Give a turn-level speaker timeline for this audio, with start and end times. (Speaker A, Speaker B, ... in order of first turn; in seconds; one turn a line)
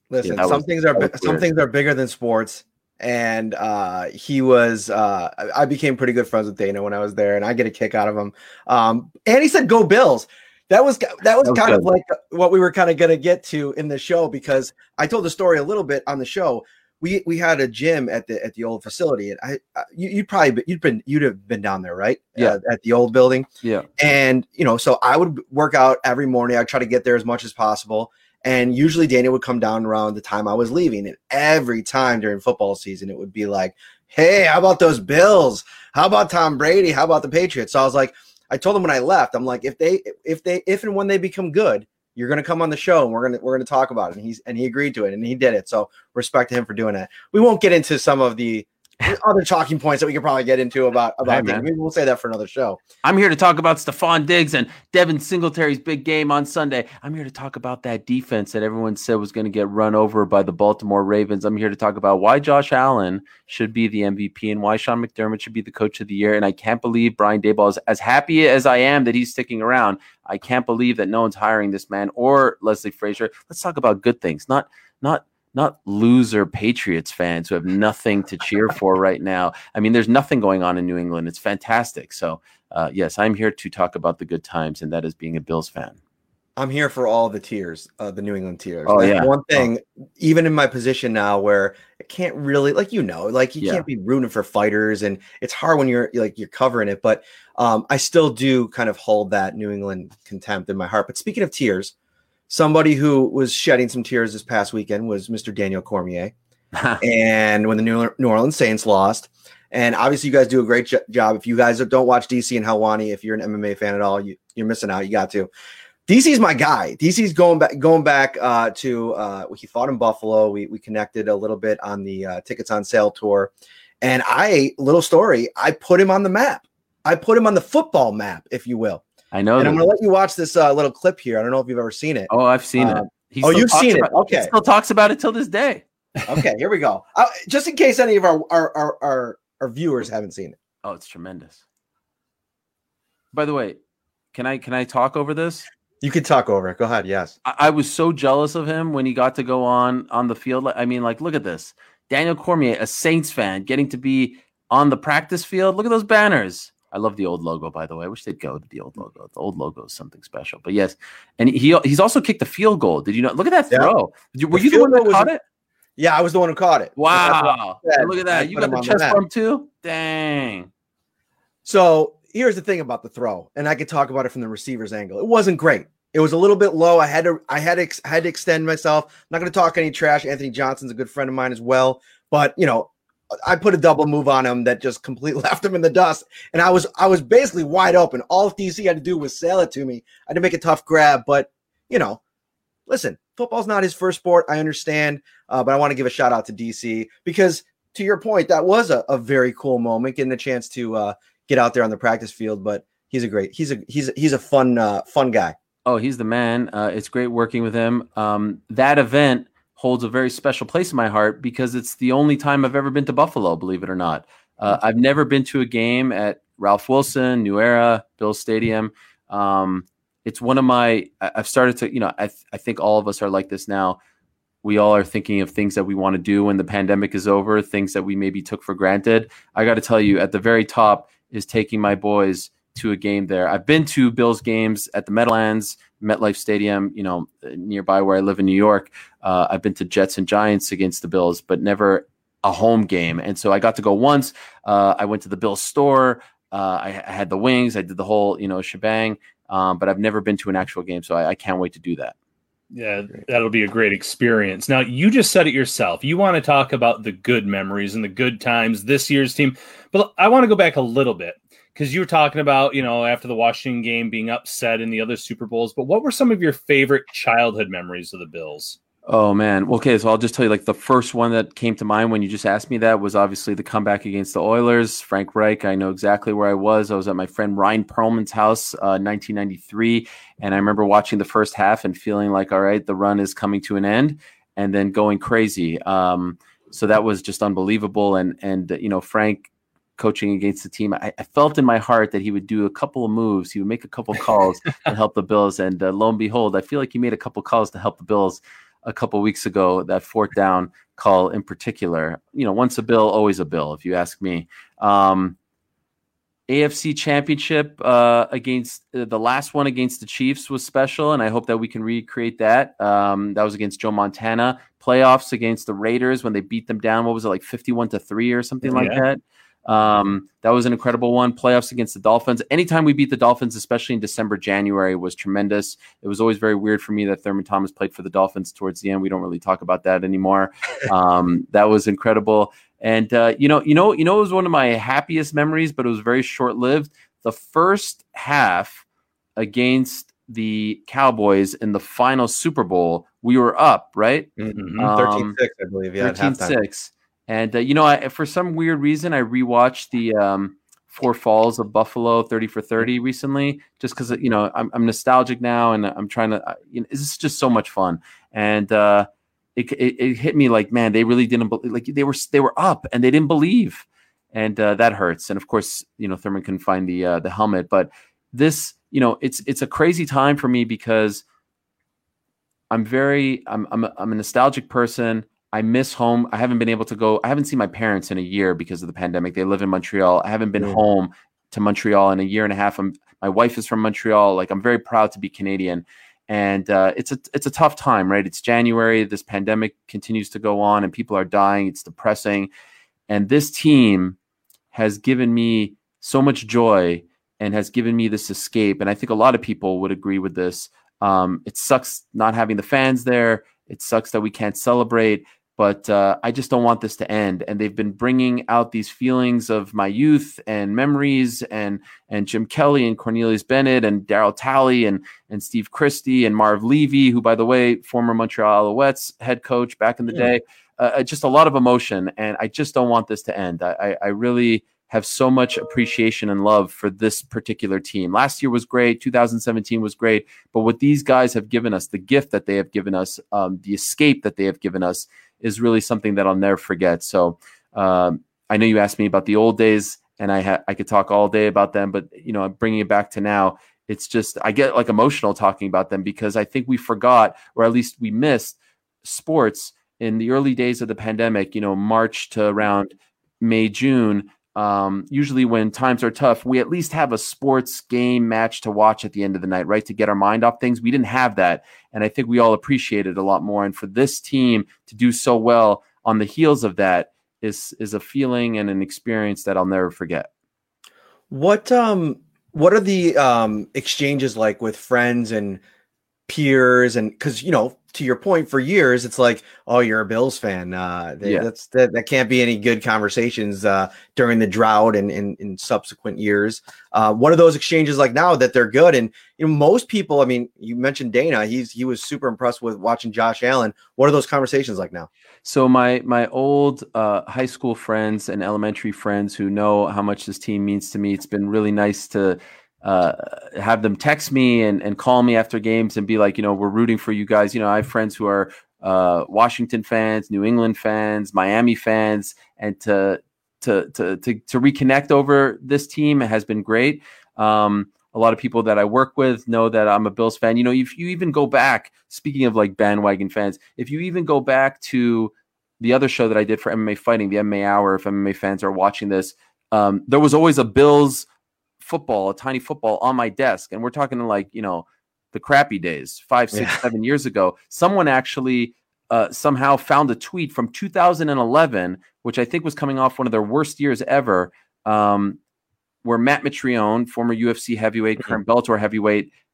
Speaker A: 0.1-23.5
Speaker B: 0.2-1.4
Speaker B: 11.4-11.9
Speaker B: 23.6-23.9
Speaker A: 24.0-52.8
Speaker B: 51.2-51.6
Speaker B: 53.0-86.0
Speaker A: 86.6-101.9
Speaker B: 88.9-89.7
Speaker B: 93.6-93.8
Speaker A: 102.5-106.3
Speaker B: 106.7-107.0
Speaker A: 107.0-115.5
Speaker A: 116.1-129.0
Speaker B: 129.3-129.9
Speaker A: 129.6-134.5
Speaker B: 132.3-135.8
Speaker A: 136.3-140.6
Speaker B: 140.8-141.6
Speaker B: 143.3-143.8
Speaker B: 144.3-145.7
Speaker A: 146.0-147.4
Speaker B: 147.4-165.4
Speaker A: 164.5-165.3
Speaker A: 166.0-169.2
Speaker B: 166.9-170.7
Speaker A: 171.6-182.9
Speaker A: 183.4-192.2
Speaker A: 192.9-205.6
Speaker B: 205.8-224.0
Speaker B: 224.6-252.1
Speaker C: 252.7-268.8
Speaker B: 269.1-305.4
Speaker B: 306.5-338.8
Speaker C: 318.6-319.0
Speaker B: 339.4-345.4
Speaker A: 344.4-346.6
Speaker C: 344.6-344.9
Speaker B: 346.0-371.2
Speaker B: 372.7-392.5
Speaker B: 393.1-394.2
Speaker B: 394.7-470.3
Speaker A: 471.3-475.6
Speaker A: 476.3-495.1
Speaker B: 481.2-481.5
Speaker B: 495.4-531.3
Speaker B: 531.8-545.4
Speaker B: 546.0-549.3